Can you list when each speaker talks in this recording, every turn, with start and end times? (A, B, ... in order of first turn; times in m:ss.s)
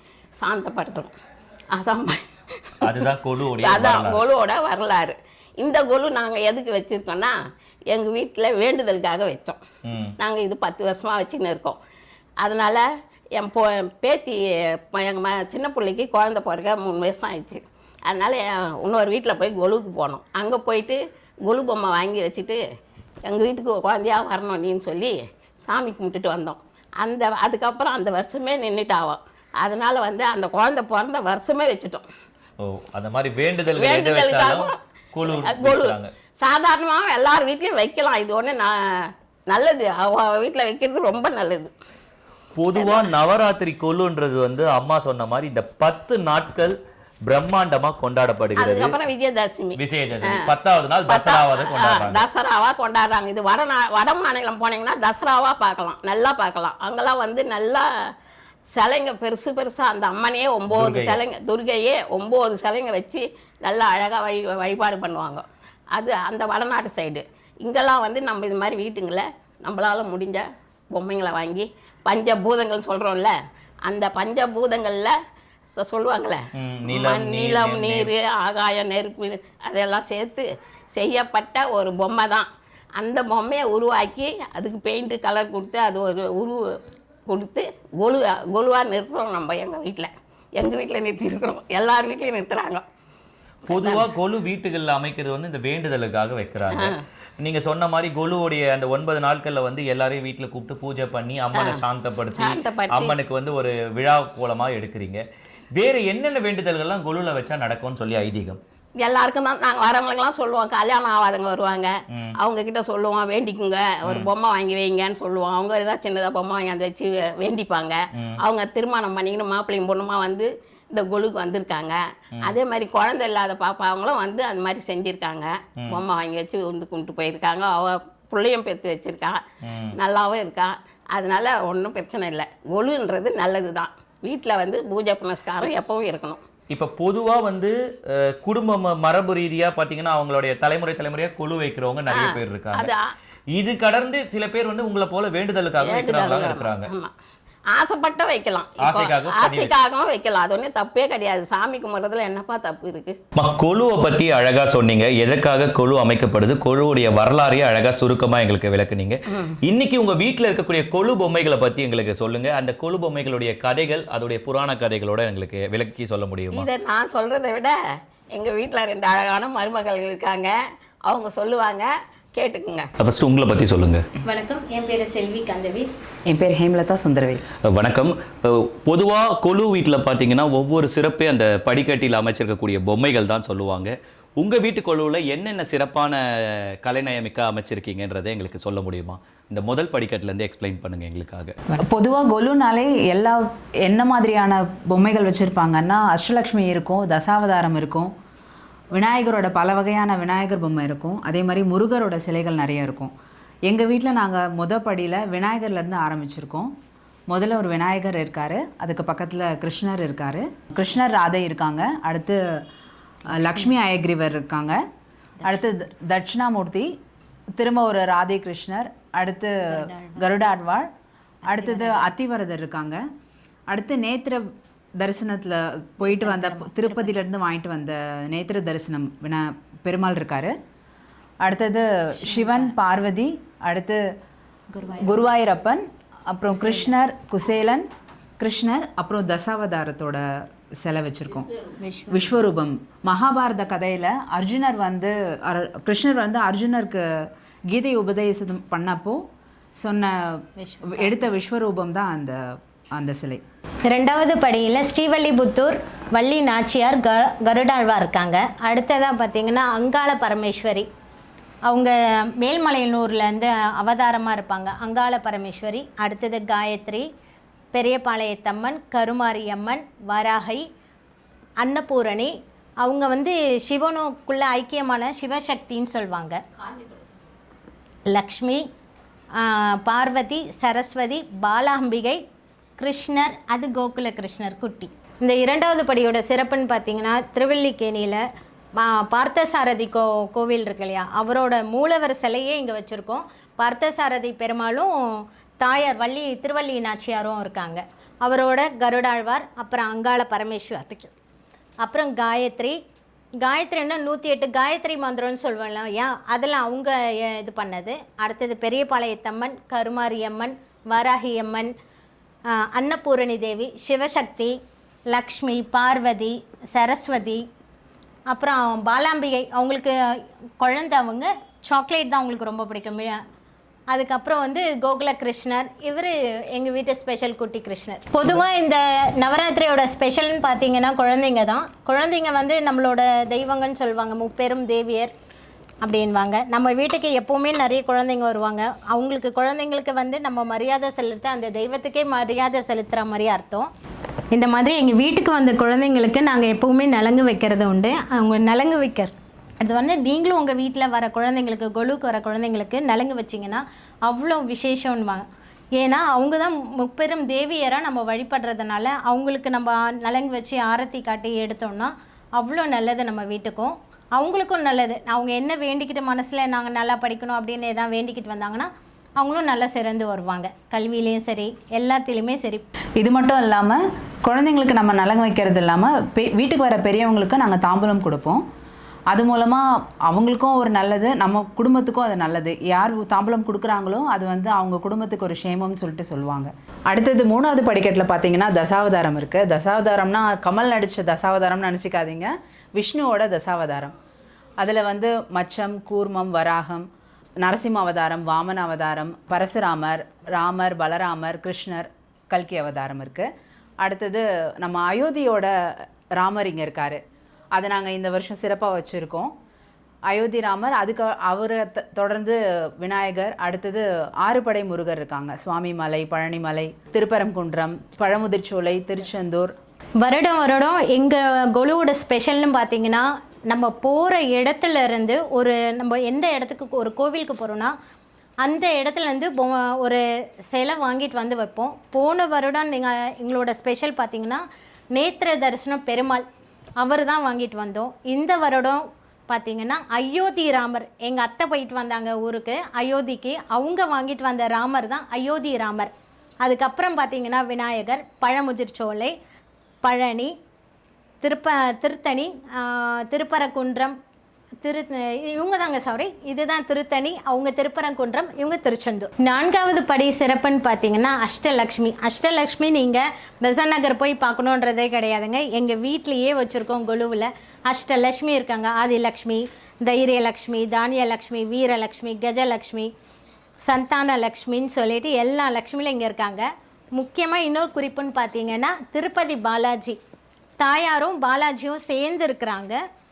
0:00.4-0:01.1 A
0:01.7-0:03.1 A
0:02.8-0:04.2 B
0:03.6-0:07.4 A
0:07.9-0:09.6 A
0:09.8-0:10.2 B
0:10.2-0:11.8 A
0:12.4-0:22.6 A
0:23.3-0:32.1 A
0:32.6-0:36.1 B
0:33.8-0:41.7 A
0:42.6-0:49.0 B
0:42.8-0:43.1 A
0:48.6-0:50.5 A
0:49.8-0:52.3 B
0:51.1-0:58.1 A
0:58.7-1:15.2 A
1:00.7-1:01.2 B
1:15.8-1:32.8 A
1:16.6-1:18.1 B
1:33.7-1:48.6 B
1:33.7-1:34.1 A
1:36.7-1:37.0 A
1:41.6-1:41.8 A
1:42.4-1:43.2 A
1:49.0-2:09.4 A
1:52.1-1:52.4 B
1:54.0-1:54.3 B
1:58.1-1:58.4 B
2:05.8-2:06.0 B
2:09.6-2:10.0 B
2:10.0-2:16.4 A
2:16.7-2:22.9 B
2:22.1-2:23.1 A
2:23.5-2:26.9 B
2:25.8-2:27.1 A
2:27.7-2:33.2 A
2:28.8-2:29.8 B
2:33.4-2:46.7 B
2:39.3-2:39.6 A
2:46.5-2:47.8 A
2:48.3-2:52.9 A
2:53.0-2:54.0 B
2:54.2-2:55.9 C
2:56.3-2:57.4 D
2:57.7-3:11.5 B
3:11.8-3:18.1 D
3:18.9-3:23.1 D
3:23.7-3:26.8 D
3:27.3-3:32.4 D
3:33.3-3:34.8 D
3:35.4-3:37.0 D
3:37.6-3:40.9 D
3:39.9-3:40.2 C
3:41.5-3:43.1 D
3:41.5-3:42.0 C
3:43.7-3:44.5 D
3:45.0-3:50.6 D
3:46.2-3:46.7 C
3:51.4-3:54.1 D
3:54.8-3:55.1 C
3:55.0-3:57.9 D
3:58.4-4:00.2 D
4:00.8-4:01.5 D
4:01.8-4:02.2 C
4:02.1-4:09.2 D
4:09.8-4:13.4 D
4:10.6-4:11.2 C
4:13.9-4:20.9 C
4:21.7-4:27.1 C
4:27.7-4:30.7 C
4:31.6-4:36.4 C
4:38.1-4:38.7 C
4:39.4-4:42.2 C
4:42.8-4:48.2 C
4:48.8-5:01.1 C
5:01.8-5:02.8 C
5:03.4-5:11.7 C
5:12.5-5:14.6 C
5:15.1-5:17.5 C
5:18.3-5:23.2 C
5:23.9-5:35.1 C
5:35.8-5:43.7 C
5:44.3-6:12.6 C
6:13.0-6:18.4 D
6:19.1-6:33.9 D
6:34.6-6:36.9 D
6:37.4-6:43.3 D
6:43.8-6:47.0 D
6:47.6-6:49.3 D
6:50.1-6:59.5 D
7:00.0-7:07.7 C
7:08.4-7:14.4 C
7:15.0-7:16.3 C
7:16.8-7:25.9 C
7:26.4-7:29.2 C
7:29.8-7:30.3 C
7:31.2-7:34.0 C
7:34.6-7:52.9 C
7:53.6-8:00.0 C
8:00.6-8:02.8 C